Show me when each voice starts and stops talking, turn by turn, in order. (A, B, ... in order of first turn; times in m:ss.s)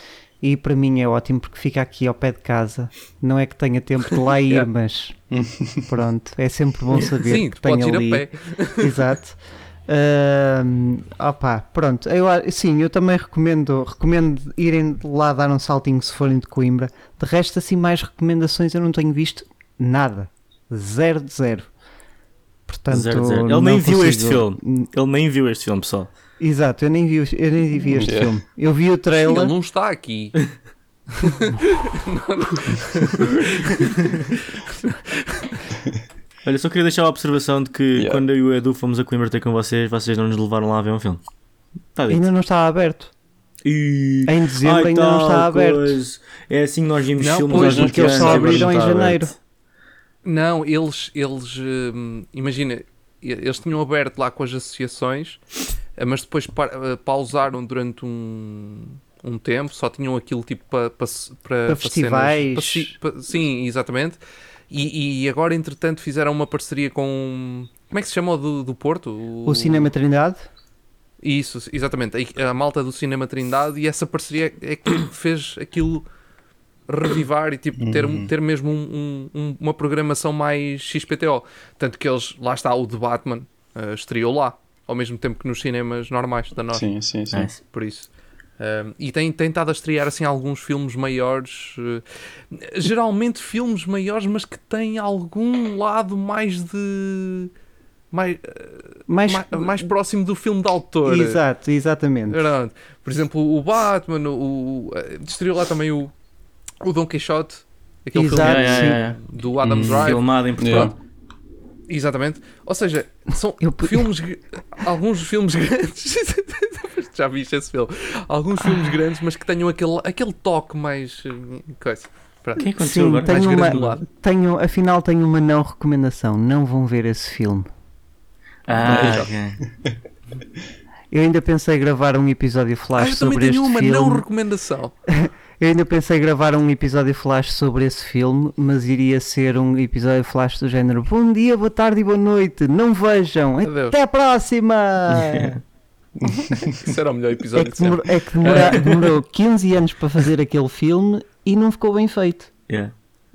0:00.4-0:21.7 A
0:05.3-0:05.9 B
0:07.0-0:09.0 C
0:22.7-0:24.9 A
0:22.9-0:26.1 D
0:26.4-0:29.5 A
0:27.9-0:28.3 B
0:29.2-0:30.5 C
0:31.1-0:35.6 C
0:36.4-0:41.2 D
0:41.9-0:42.3 D
0:42.1-0:43.1 A
0:43.6-0:49.3 D
0:44.3-0:46.0 A
0:47.2-0:48.7 C
0:47.5-0:49.3 A
0:50.2-0:55.4 C
0:56.0-1:09.9 C
1:01.7-1:02.9 A
1:09.4-1:10.4 A
1:11.2-1:16.0 C
1:16.9-1:26.9 C
1:17.8-1:18.3 B
1:26.7-1:27.5 B
1:27.3-1:27.6 D
1:27.6-1:37.5 C
1:38.1-1:41.4 C
1:39.1-1:39.8 A
1:41.0-1:42.5 A
1:42.3-1:46.1 C
1:46.8-1:50.9 C
1:48.1-1:49.0 A
1:48.4-1:49.2 D
1:49.6-1:50.9 B
1:49.7-1:50.9 D
1:51.9-2:02.7 C
1:53.6-1:54.1 A
2:02.6-2:04.0 D
2:02.8-2:07.7 A
2:03.2-2:04.0 C
2:08.7-2:09.6 D
2:08.8-2:09.3 C
2:08.8-2:09.3 B
2:11.1-2:14.2 A
2:13.0-2:14.9 C
2:15.1-2:25.6 A
2:23.6-2:24.0 C
2:25.1-2:25.6 D
2:26.2-2:26.7 B
2:26.4-2:29.1 C
2:27.6-2:32.5 A
2:28.4-2:28.7 D